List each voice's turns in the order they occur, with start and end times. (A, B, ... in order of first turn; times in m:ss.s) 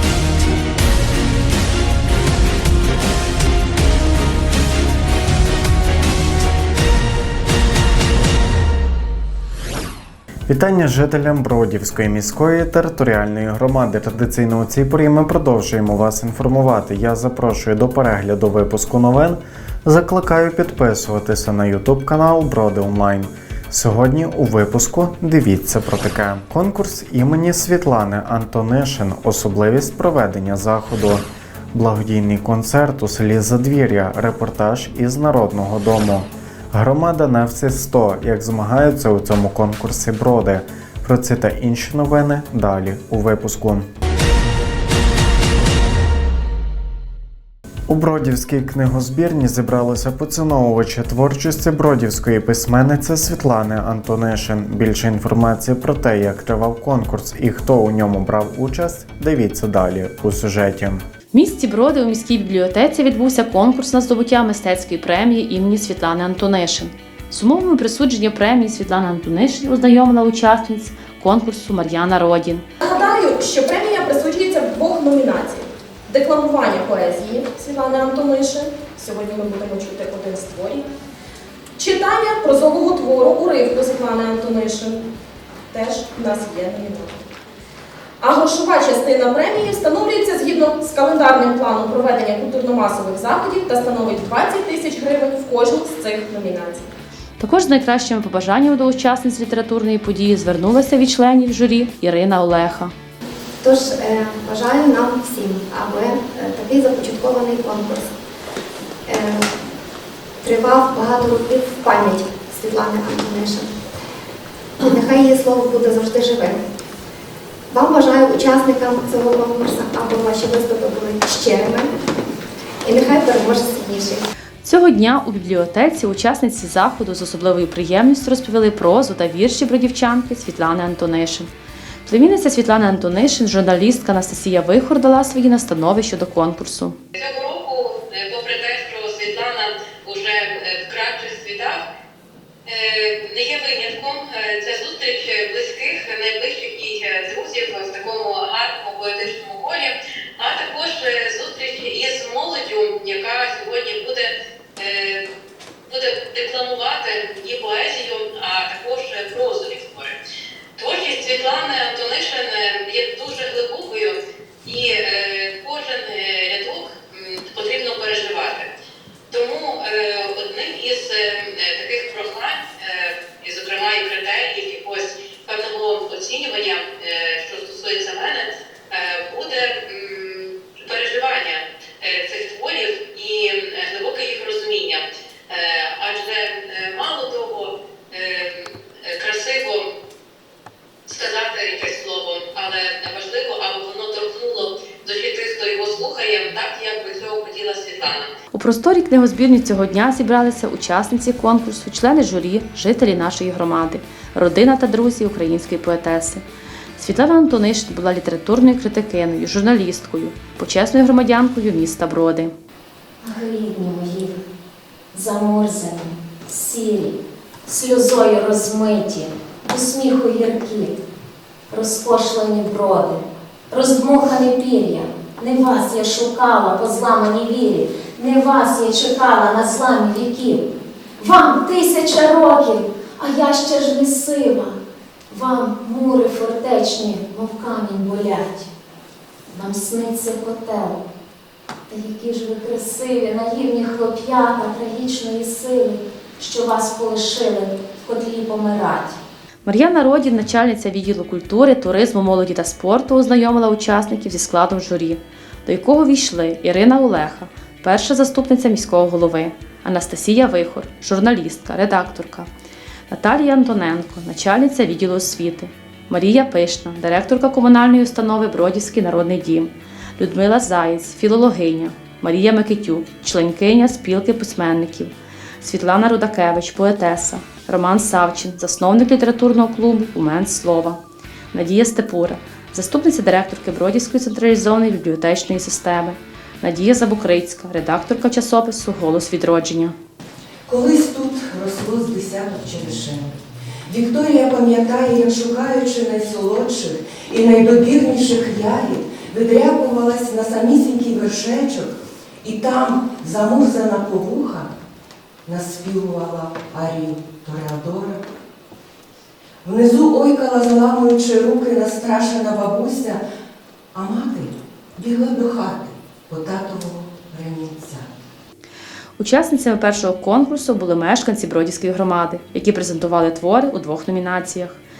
0:10.5-0:43.9 A
0:47.9-1:01.0 A
1:01.3-1:12.6 B
1:12.8-1:20.9 C
1:21.8-1:25.0 C
1:25.7-1:27.2 C
1:28.2-1:36.9 C
1:37.4-1:42.9 B
1:43.6-1:48.2 D
1:49.0-1:49.4 D
1:50.4-1:53.7 D
1:54.8-1:56.6 D
1:57.7-2:01.9 D
2:02.8-2:04.2 D
2:04.6-2:11.5 B
2:12.0-2:17.0 B
2:17.2-2:21.8 E
2:22.6-2:35.2 E
2:35.9-2:40.1 E
2:40.8-2:48.7 E
2:49.3-3:09.8 E
3:11.1-3:18.3 E
3:18.5-3:26.4 B
3:27.0-3:32.5 B
3:33.2-3:34.4 F
3:35.1-3:37.2 F
3:37.7-3:41.0 F
3:41.7-3:50.7 F
3:51.2-3:54.8 F
3:55.3-3:58.7 F
3:59.5-4:01.0 F
4:01.9-4:09.2 F
4:09.6-4:22.5 B
4:23.1-4:41.0 B
4:41.5-4:49.9 B
4:50.6-4:53.4 G
4:53.9-5:04.7 G
5:05.4-5:08.2 G
5:09.6-5:13.2 G
5:13.9-5:18.2 G
5:19.2-5:24.8 B